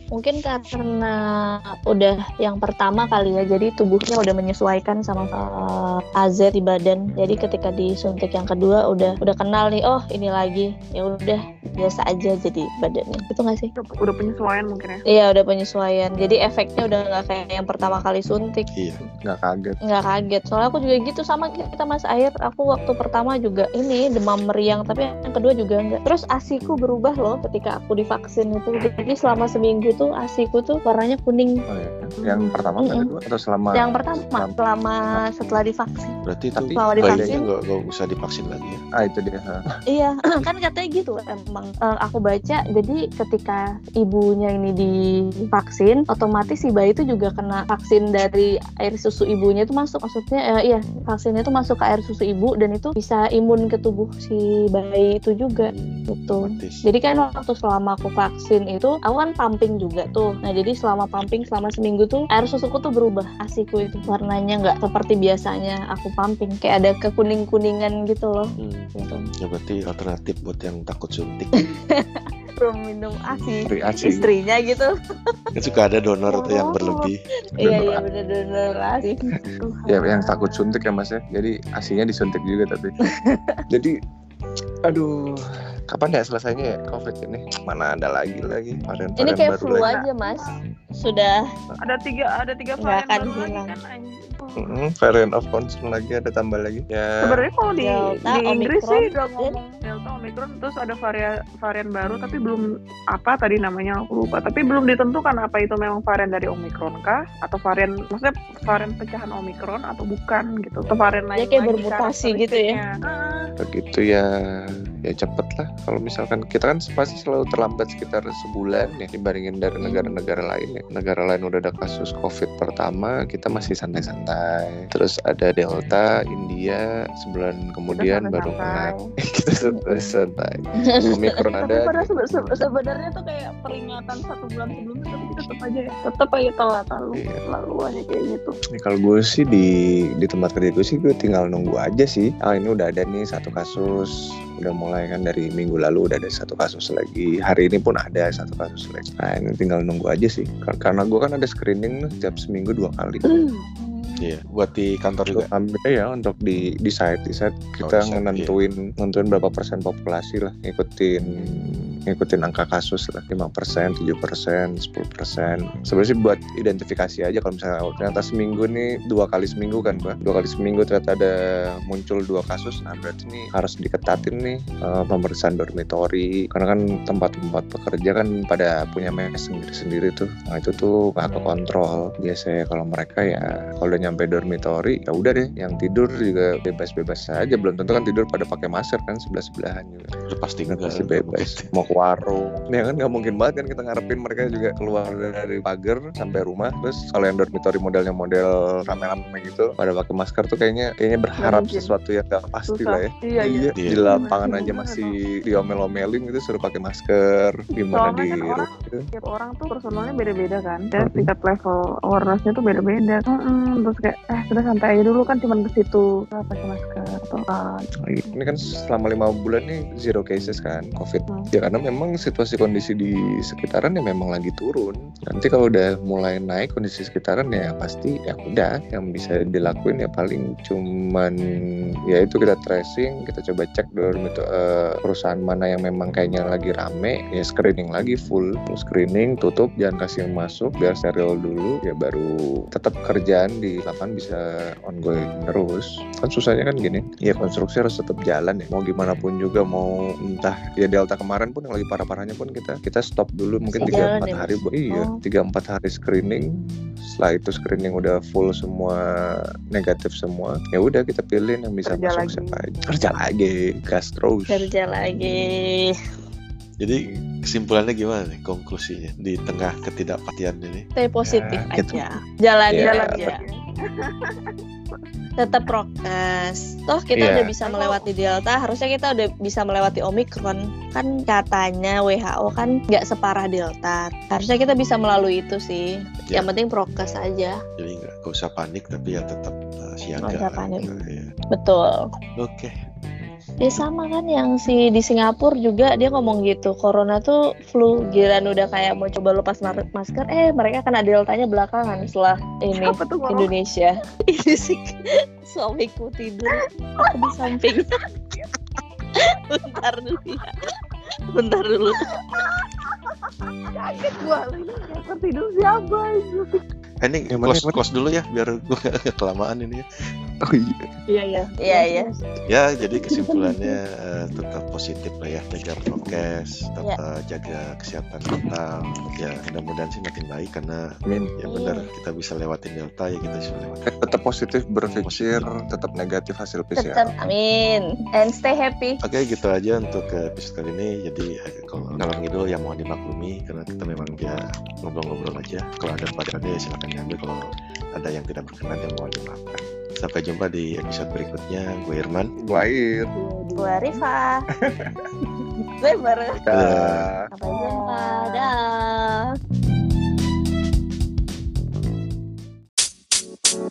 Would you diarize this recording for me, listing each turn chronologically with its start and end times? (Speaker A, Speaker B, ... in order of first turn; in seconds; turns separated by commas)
Speaker A: 0.1-13.7, Speaker B: 13.8-15.0, Speaker A: 15.1-18.7, Speaker C: 18.8-19.0, Speaker D: 19.2-19.8, Speaker A: 19.9-31.5, Speaker D: 31.7-34.5, Speaker B: 32.2-32.9, Speaker A: 33.8-36.2, Speaker C: 36.2-38.8, Speaker D: 36.5-37.3, Speaker A: 36.8-37.5, Speaker D: 39.0-39.6, Speaker A: 39.9-44.9, Speaker A: 45.5-69.2, Speaker C: 55.5-56.8, Speaker C: 68.6-68.9, Speaker C: 69.4-71.6, Speaker A: 71.6-74.9, Speaker D: 73.7-74.3, Speaker C: 75.5-77.2, Speaker B: 76.3-77.1, Speaker A: 77.6-79.3, Speaker D: 77.6-78.0, Speaker B: 79.6-80.8, Speaker D: 79.9-82.9, Speaker A: 83.1-83.6, Speaker D: 84.9-90.0, Speaker A: 89.2-91.4, Speaker B: 89.7-90.6, Speaker B: 91.8-94.7, Speaker A: 92.8-93.7, Speaker D: 94.6-97.4, Speaker B: 97.2-113.5, Speaker A: 97.8-99.6, Speaker A: 111.4-112.8, Speaker D: 113.6-132.1, Speaker A: 119.8-120.1, Speaker B: 128.0-129.1, Speaker A: 129.7-130.1, Speaker A: 130.8-131.4, Speaker B: 131.6-138.6, Speaker D: 137.1-137.4, Speaker D: 138.8-153.3, Speaker B: 153.3-153.6, Speaker A: 153.8-154.2, Speaker C: 154.2-155.5, Speaker D: 155.3-161.5, Speaker C: 157.8-158.6, Speaker D: 162.1-171.3, Speaker D: 171.8-190.2, Speaker C: 190.3-191.7, Speaker D: 190.7-209.0, Speaker B: 201.4-201.9, Speaker B: 202.7-205.1, Speaker C: 203.8-204.0, Speaker A: 204.2-204.6, Speaker B: 207.9-217.9, Speaker D: 211.0-211.3, Speaker D: 218.1-231.3, Speaker D: 232.1-256.5, Speaker A: 253.8-255.2, Speaker D: 257.0-259.0, Speaker D: 259.7-264.7, Speaker B: 261.9-262.6, Speaker A: 264.5-265.9, Speaker C: 266.8-270.9, Speaker A: 271.0-273.4, Speaker D: 271.3-272.0, Speaker D: 272.7-273.3, Speaker B: 272.8-275.0, Speaker A: 275.4-287.6, Speaker D: 277.1-277.5, Speaker B: 277.6-278.1, Speaker C: 287.8-291.3, Speaker A: 290.2-290.9, Speaker A: 291.5-292.0, Speaker C: 292.4-292.7, Speaker A: 293.6-304.9, Speaker B: 302.8-303.5, Speaker A: 305.5-307.9, Speaker B: 307.0-307.3, Speaker B: 307.9-308.5, Speaker A: 309.2-310.6, Speaker A: 311.4-312.1, Speaker B: 312.3-316.6, Speaker C: 317.0-319.9, Speaker D: 317.3-317.8, Speaker D: 320.4-320.9, Speaker B: 321.1-322.2, Speaker A: 321.6-322.1, Speaker C: 322.5-330.8, Speaker A: 323.2-323.7, Speaker D: 331.1-331.3, Speaker C: 331.4-333.9, Speaker A: 331.5-331.9, Speaker D: 333.9-337.1, Speaker C: 334.9-335.5, Speaker A: 336.8-339.0, Speaker C: 339.0-347.4, Speaker C: 347.9-352.3, Speaker D: 352.4-353.1, Speaker B: 353.1-354.0, Speaker A: 353.6-354.4, Speaker D: 354.8-355.1, Speaker A: 355.8-356.4, Speaker D: 356.5-357.2, Speaker C: 356.5-357.1, Speaker A: 357.4-359.3, Speaker B: 357.4-358.5